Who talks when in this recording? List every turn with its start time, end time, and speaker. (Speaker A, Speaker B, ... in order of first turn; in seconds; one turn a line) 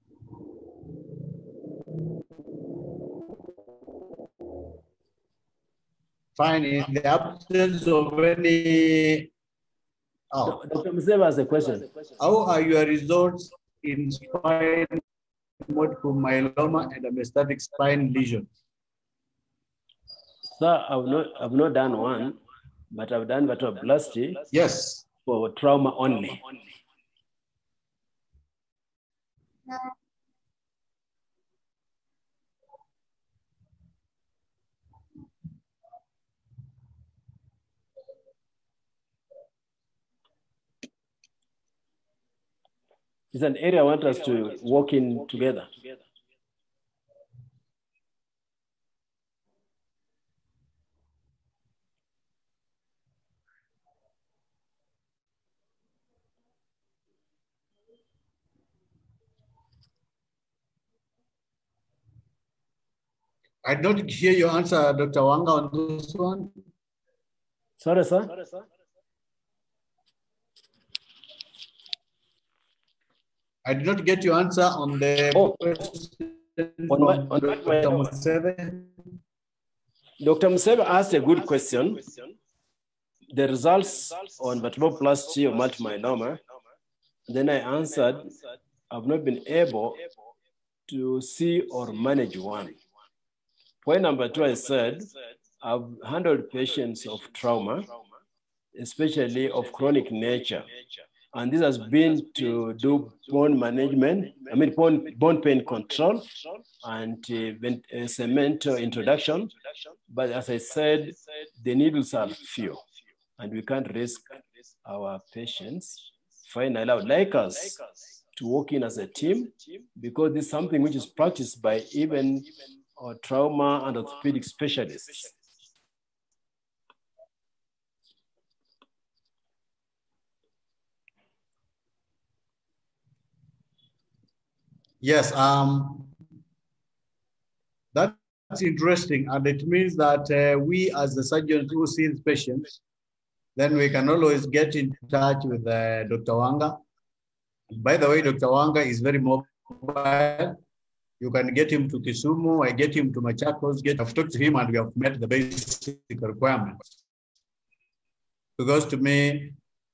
Speaker A: 6.4-9.3
Speaker A: 10.3-10.6
Speaker B: 10.4-11.9
Speaker A: 12.2-15.0
Speaker A: 15.6-18.5
Speaker B: 20.5-22.4
Speaker B: 22.9-24.4
Speaker A: 24.5-25.1
Speaker B: 25.3-26.4
Speaker B: 43.3-45.7
Speaker A: 63.6-66.5
Speaker B: 67.8-68.3
Speaker A: 73.6-79.0
Speaker B: 76.9-78.0
Speaker B: 80.2-82.1
Speaker B: 83.3-86.4
Speaker B: 87.3-88.3
Speaker B: 88.9-90.0
Speaker B: 90.9-92.8
Speaker B: 93.8-97.9
Speaker B: 98.8-100.7
Speaker B: 101.3-106.3
Speaker B: 106.8-109.5
Speaker B: 110.1-112.8
Speaker B: 113.4-117.8
Speaker B: 118.3-125.3
Speaker A: 135.0-136.1
Speaker A: 137.9-142.8
Speaker A: 143.6-146.8
Speaker A: 147.7-150.6
Speaker A: 151.2-156.9
Speaker A: 158.6-159.6